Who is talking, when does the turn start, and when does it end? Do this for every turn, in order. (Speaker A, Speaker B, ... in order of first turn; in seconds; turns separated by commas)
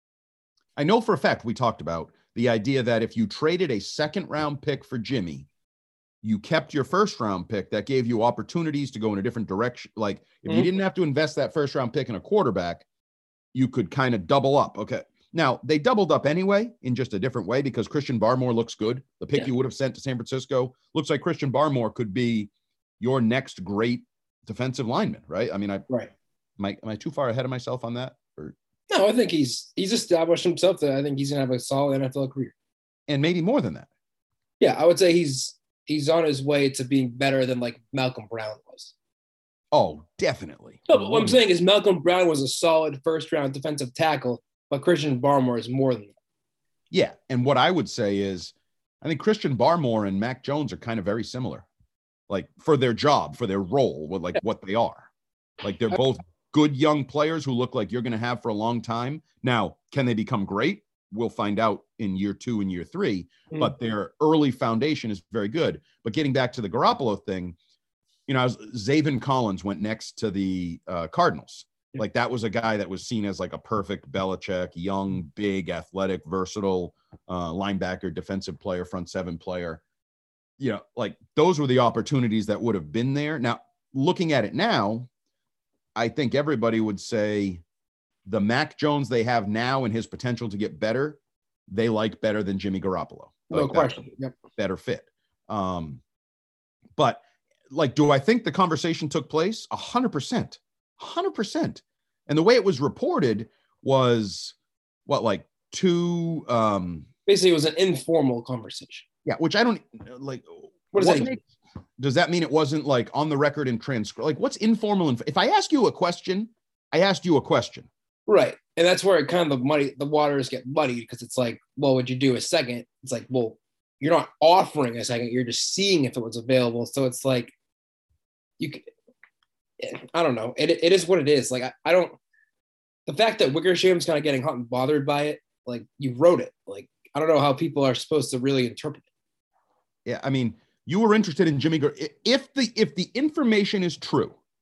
Speaker A: 0.8-5.5, Speaker A: 6.2-12.8, Speaker A: 13.5-25.9, Speaker A: 26.6-28.6, Speaker B: 28.9-32.5, Speaker A: 33.1-33.9, Speaker B: 34.6-38.9, Speaker A: 39.7-41.4, Speaker B: 40.9-46.1, Speaker A: 46.9-51.6, Speaker A: 52.3-55.1, Speaker A: 55.6-67.6, Speaker A: 68.3-79.8, Speaker A: 80.6-85.1, Speaker A: 86.0-87.6, Speaker A: 88.3-96.0, Speaker B: 93.5-94.3, Speaker A: 97.0-104.6, Speaker A: 105.1-107.1, Speaker B: 107.3-109.0, Speaker A: 109.3-111.4, Speaker B: 110.9-111.3, Speaker A: 112.0-117.9, Speaker B: 118.3-127.5, Speaker B: 128.6-128.9, Speaker B: 129.8-132.2, Speaker B: 133.1-139.1, Speaker A: 140.1-144.4